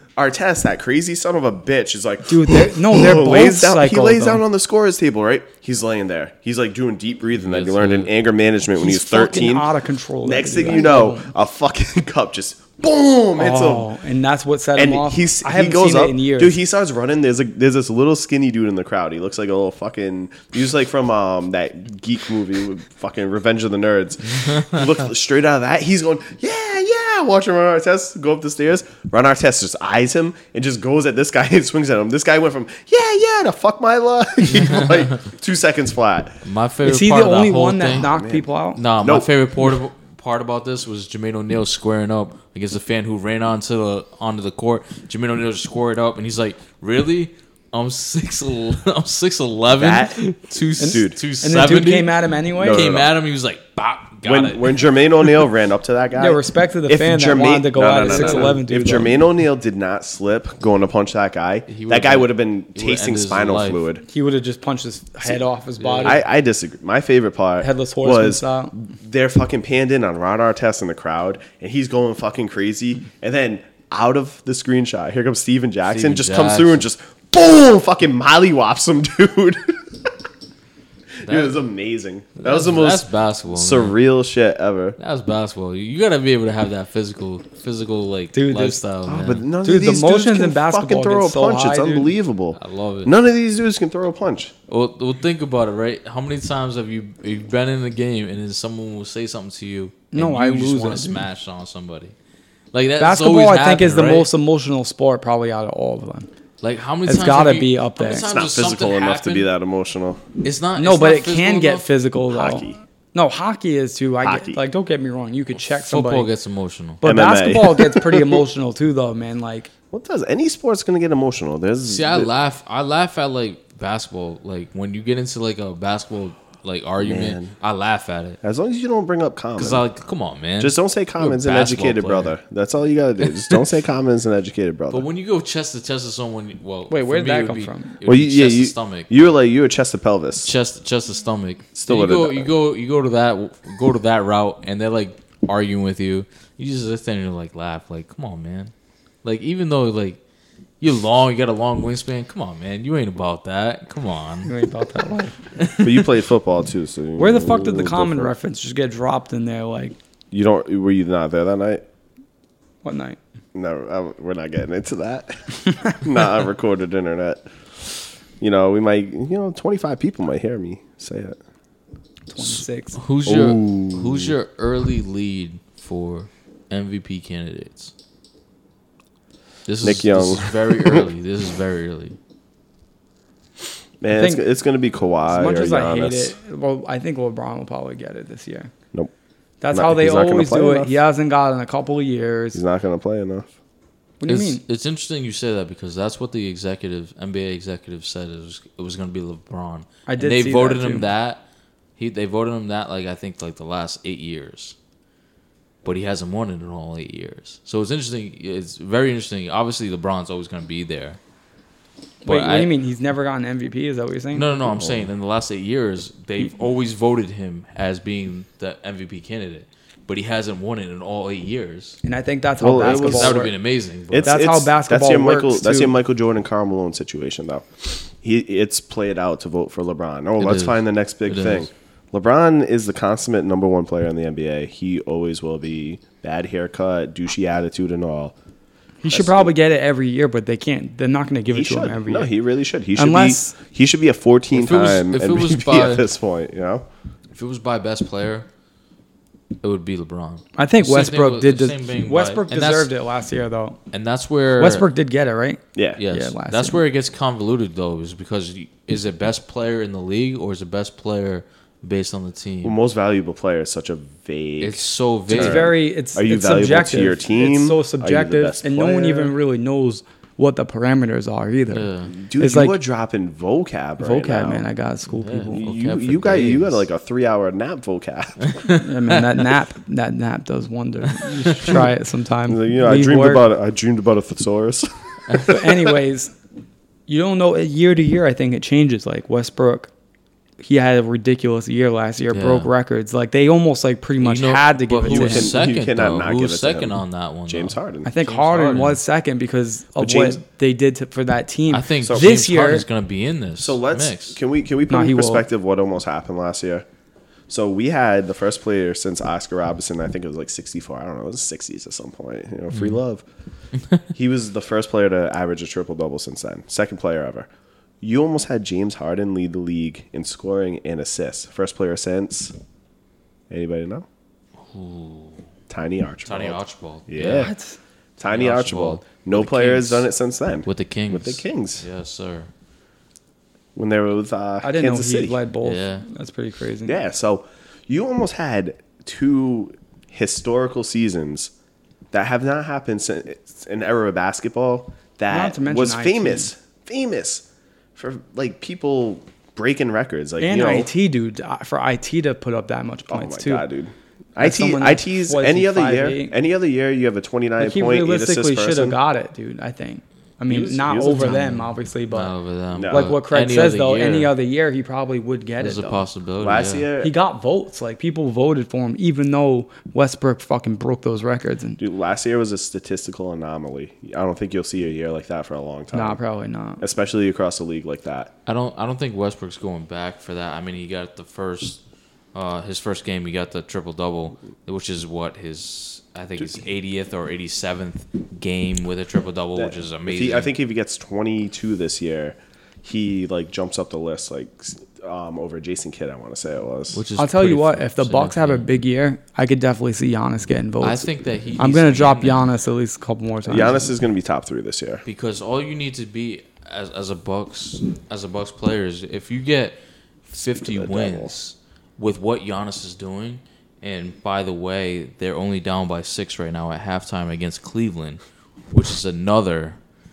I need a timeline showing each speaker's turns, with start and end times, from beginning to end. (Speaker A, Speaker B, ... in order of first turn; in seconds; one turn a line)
Speaker A: 0.2-9.7
Speaker B: 2.3-4.4
Speaker C: 7.4-8.1
Speaker B: 8.8-11.3
Speaker A: 10.2-13.9
Speaker B: 13.4-16.6
Speaker A: 14.8-36.4
Speaker C: 34.5-35.1
Speaker C: 36.4-38.1
Speaker B: 36.8-38.8
Speaker A: 37.9-38.5
Speaker C: 38.8-55.4
Speaker A: 39.0-39.3
Speaker A: 49.7-51.2
Speaker B: 50.8-52.9
Speaker A: 52.5-53.1
Speaker A: 54.2-64.0
Speaker B: 56.2-59.1
Speaker C: 58.1-58.5
Speaker C: 61.7-63.8
Speaker B: 64.1-66.2
Speaker C: 65.8-66.2
Speaker A: 66.0-79.8
Speaker B: 67.6-68.7
Speaker C: 75.9-76.8
Speaker A: 81.2-85.0
Speaker C: 81.2-81.6
Speaker C: 82.4-84.0
Speaker C: 85.0-89.5
Speaker B: 88.3-88.8
Speaker A: 89.1-94.5
Speaker B: 89.6-92.1
Speaker C: 92.6-93.1
Speaker C: 94.7-102.1
Speaker B: 100.1-101.2
Speaker C: 102.7-104.3
Speaker B: 103.0-106.3
Speaker C: 106.6-109.5
Speaker B: 107.0-108.3
Speaker A: 108.3-110.2
Speaker C: 110.4-111.9
Speaker B: 110.8-116.3
Speaker A: 112.3-112.8
Speaker A: 114.2-114.6
Speaker C: 115.8-117.0
Speaker B: 117.0-119.7
Speaker A: 117.0-118.4
Speaker A: 119.9-122.3
Speaker C: 121.8-128.4
Speaker A: 127.0-127.5
Speaker A: 128.4-129.8
Speaker C: 129.6-132.3
Speaker A: 130.6-135.1
Speaker C: 133.3-133.6
Speaker C: 134.9-139.3
Speaker B: 136.9-138.0
Speaker A: 138.1-140.5
Speaker C: 140.4-148.7
Speaker A: 141.8-142.5
Speaker C: 149.2-150.2
Speaker C: 150.8-154.5
Speaker B: 154.4-155.4
Speaker C: 155.6-156.0
Speaker A: 155.8-158.3
Speaker B: 157.2-160.0
Speaker A: 160.3-161.8
Speaker B: 162.8-163.2
Speaker A: 163.6-171.4
Speaker B: 172.3-173.0
Speaker C: 172.4-177.9
Speaker A: 173.2-174.3
Speaker C: 179.7-182.2
Speaker A: 179.8-181.1
Speaker A: 184.0-186.3
Speaker B: 184.2-184.4
Speaker B: 185.3-188.7
Speaker B: 189.6-192.6
Speaker A: 189.7-191.0
Speaker A: 192.5-193.5
Speaker B: 194.2-194.6
Speaker C: 194.3-201.4
Speaker B: 200.1-201.1
Speaker C: 202.0-204.8
Speaker C: 205.8-211.2
Speaker B: 212.2-214.5
Speaker C: 212.2-212.7
Speaker C: 214.3-222.0
Speaker A: 214.8-215.0
Speaker B: 222.0-223.5
Speaker A: 222.6-223.5
Speaker C: 222.8-224.4
Speaker A: 224.1-238.3
Speaker B: 224.2-225.9
Speaker C: 230.4-231.7
Speaker B: 239.0-242.3
Speaker A: 239.1-239.5
Speaker A: 241.5-246.8
Speaker B: 243.0-243.6
Speaker C: 244.5-246.1
Speaker C: 247.3-248.5
Speaker C: 249.6-252.9
Speaker B: 250.6-253.8
Speaker C: 253.9-254.9
Speaker B: 254.6-256.8
Speaker A: 255.8-256.0
Speaker C: 256.0-262.8
Speaker A: 262.6-269.3
Speaker C: 264.6-265.7
Speaker B: 265.3-271.9
Speaker C: 271.7-272.1
Speaker A: 272.1-274.7
Speaker B: 272.4-272.8
Speaker B: 274.0-275.7
Speaker C: 275.1-276.9
Speaker A: 275.5-278.5
Speaker C: 278.4-279.4
Speaker B: 278.8-283.4
Speaker C: 281.1-281.8
Speaker A: 282.5-285.9
Speaker B: 285.5-286.3
Speaker B: 287.1-289.9
Speaker B: 290.6-295.6
Speaker C: 292.3-292.7
Speaker C: 294.2-299.0
Speaker A: 295.1-298.1
Speaker B: 298.1-302.9
Speaker A: 300.0-300.4
Speaker C: 301.7-304.4
Speaker A: 302.0-302.4
Speaker A: 303.6-306.9
Speaker B: 304.9-305.4
Speaker A: 307.5-313.2
Speaker C: 312.7-313.0
Speaker A: 314.1-317.5
Speaker A: 318.0-322.5
Speaker A: 323.5-324.1
Speaker C: 324.6-325.5
Speaker A: 325.7-327.5
Speaker C: 326.2-327.5
Speaker B: 327.3-327.8
Speaker A: 328.2-331.8
Speaker C: 328.3-330.1
Speaker C: 330.6-332.5
Speaker A: 333.8-335.4
Speaker B: 334.6-337.0
Speaker C: 335.6-336.1
Speaker A: 336.9-341.5
Speaker A: 342.1-347.4
Speaker B: 345.3-346.5
Speaker A: 348.0-350.9
Speaker B: 350.4-353.6
Speaker A: 353.1-359.0
Speaker B: 354.4-356.3
Speaker B: 357.6-362.3
Speaker A: 360.5-361.5
Speaker C: 361.2-364.3
Speaker A: 362.7-363.1
Speaker B: 362.9-366.1
Speaker C: 365.6-366.9
Speaker A: 366.4-367.1
Speaker B: 367.0-371.8
Speaker A: 371.8-376.2
Speaker B: 375.9-376.8
Speaker A: 376.8-378.3
Speaker C: 378.5-381.8
Speaker C: 382.3-390.5
Speaker A: 389.6-397.0
Speaker C: 396.9-398.6
Speaker B: 397.2-403.9
Speaker C: 400.8-402.5
Speaker A: 403.5-405.0
Speaker C: 405.1-419.8
Speaker A: 410.4-411.4